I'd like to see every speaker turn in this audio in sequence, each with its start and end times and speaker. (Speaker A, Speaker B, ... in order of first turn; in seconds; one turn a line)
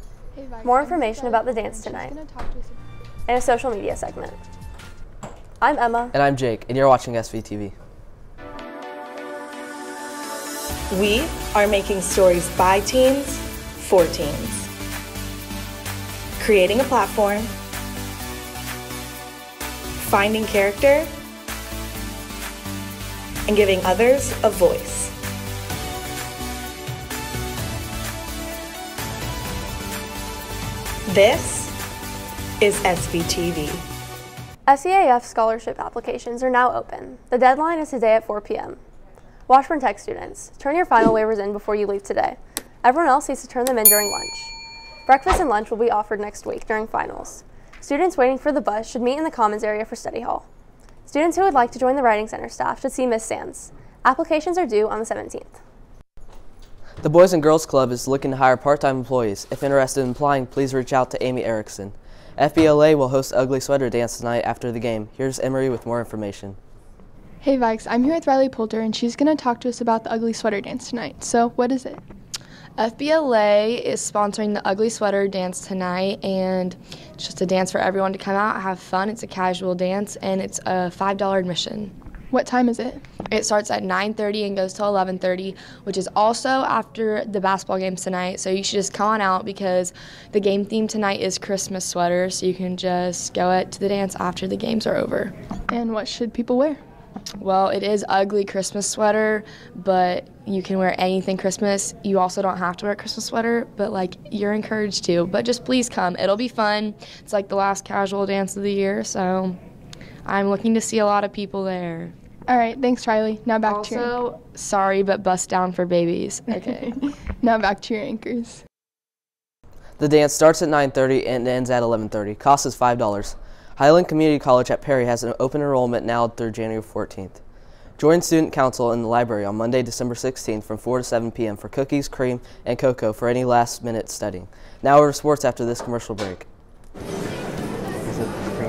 Speaker A: 0.3-2.8
Speaker B: 0.6-2.2
Speaker B: 3.3-4.4
Speaker B: 5.6-6.1
Speaker C: 6.2-7.7
Speaker D: 10.9-14.7
Speaker D: 16.4-17.5
Speaker D: 20.0-21.1
Speaker D: 23.5-25.1
Speaker D: 31.1-31.7
Speaker D: 32.6-33.8
Speaker B: 34.7-38.8
Speaker B: 39.5-44.5
Speaker B: 45.0-50.5
Speaker B: 51.0-55.6
Speaker C: 57.0-61.9
Speaker C: 62.4-66.5
Speaker A: 67.4-72.0
Speaker E: 72.8-81.9
Speaker A: 82.3-83.0
Speaker E: 83.3-95.3
Speaker A: 95.7-96.8
Speaker E: 97.4-109.6
Speaker E: 110.2-112.1
Speaker A: 112.5-114.1
Speaker E: 113.6-116.9
Speaker A: 116.5-118.6
Speaker C: 120.0-123.3
Speaker C: 123.9-127.3
Speaker C: 128.0-136.4